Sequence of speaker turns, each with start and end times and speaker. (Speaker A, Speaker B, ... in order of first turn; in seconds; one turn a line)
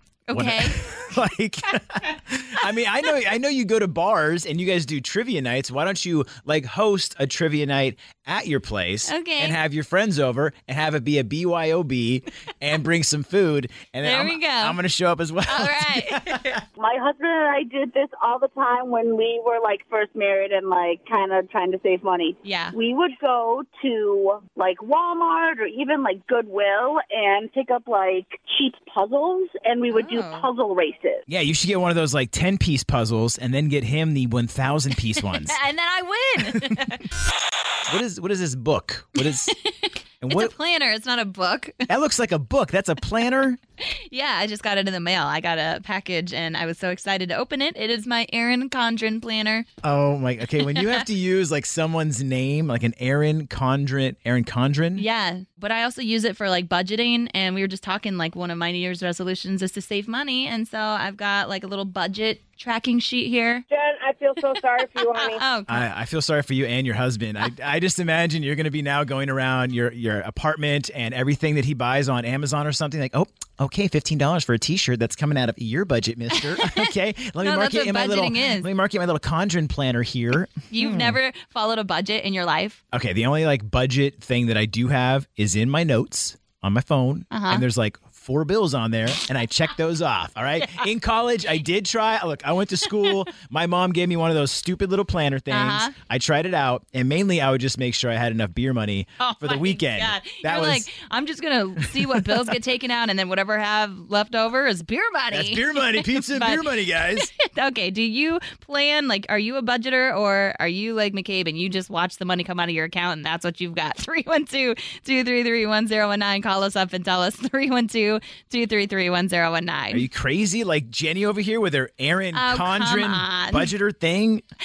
Speaker A: 0.3-0.9
Speaker B: 0.3-16.6
Speaker A: 9.1-9.6
Speaker A: 14.0-14.8
Speaker A: 15.5-16.6
Speaker C: 16.8-31.2
Speaker A: 22.4-22.8
Speaker A: 29.9-30.5
Speaker B: 31.3-35.6
Speaker A: 35.2-37.1
Speaker B: 37.9-39.5
Speaker A: 39.2-41.9
Speaker B: 40.2-40.5
Speaker B: 41.9-43.6
Speaker A: 43.8-49.7
Speaker B: 49.8-55.1
Speaker A: 50.6-51.0
Speaker A: 55.0-63.6
Speaker C: 63.8-64.5
Speaker A: 64.4-65.8
Speaker B: 65.7-81.2
Speaker A: 76.6-78.7
Speaker A: 80.7-82.8
Speaker B: 82.9-100.9
Speaker A: 87.3-87.7
Speaker A: 90.6-90.9
Speaker A: 95.5-95.9
Speaker A: 99.2-120.1
Speaker B: 101.8-102.5
Speaker B: 105.3-107.3
Speaker B: 119.9-124.4
Speaker A: 122.3-123.7